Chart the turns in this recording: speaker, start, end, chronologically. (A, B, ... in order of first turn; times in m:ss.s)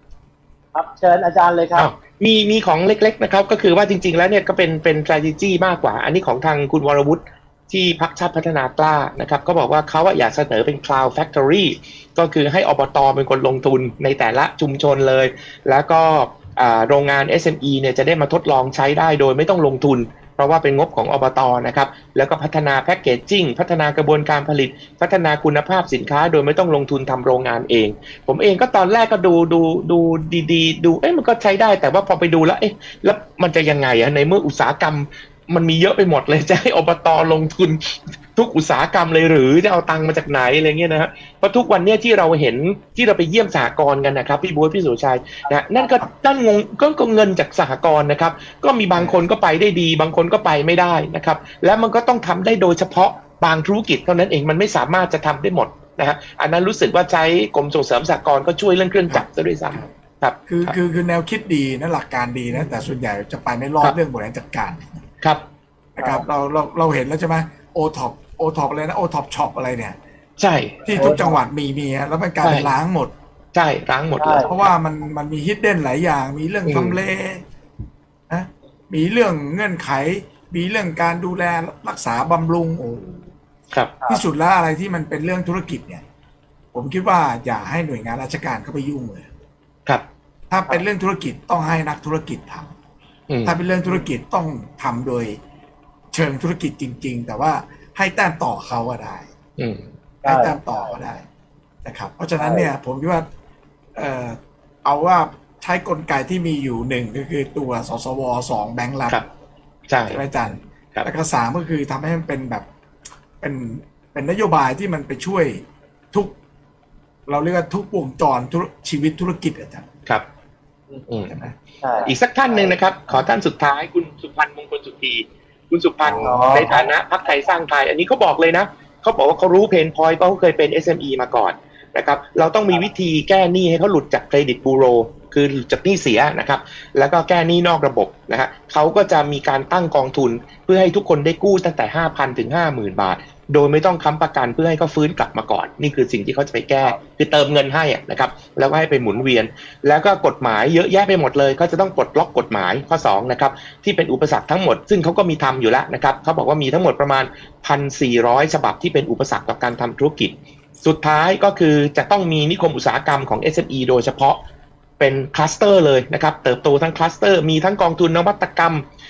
0:00.7-0:01.9 A
0:01.8-1:00.8 B
0:45.4-0:46.0 A
0:59.1-0:59.9 C
1:00.5-1:05.0 C
1:06.0-1:10.0 C
1:10.4-1:10.9 B
1:10.8-1:13.1 C
1:10.9-1:11.4 A
1:12.4-1:12.7 B
1:13.5-1:14.7 B
1:14.2-1:14.5 A
1:14.4-1:17.4 C
1:16.6-1:17.0 B
1:18.3-1:23.3 C
1:24.1-1:26.0 C
1:26.7-1:29.3 C
1:30.5-1:32.7 C
1:33.3-1:33.6 B
1:33.4-1:35.4 C
1:36.1-1:39.3 C
1:39.6-1:39.9 B
1:40.2-1:40.9 A
1:40.2-1:41.2 C
1:41.8-1:43.3 C
1:42.4-1:42.7 A
1:43.9-1:49.2 C
1:49.9-1:50.2 B
1:50.1-1:52.6 C
1:53.4-1:56.4 C
1:57.3-1:59.9 C
2:01.1-2:01.4 B
2:01.3-2:01.5 C
2:01.8-2:02.8 A
2:02.0-2:44.4 B
2:06.0-2:06.7 C
2:06.2-2:06.8 A
2:45.0-2:48.8 B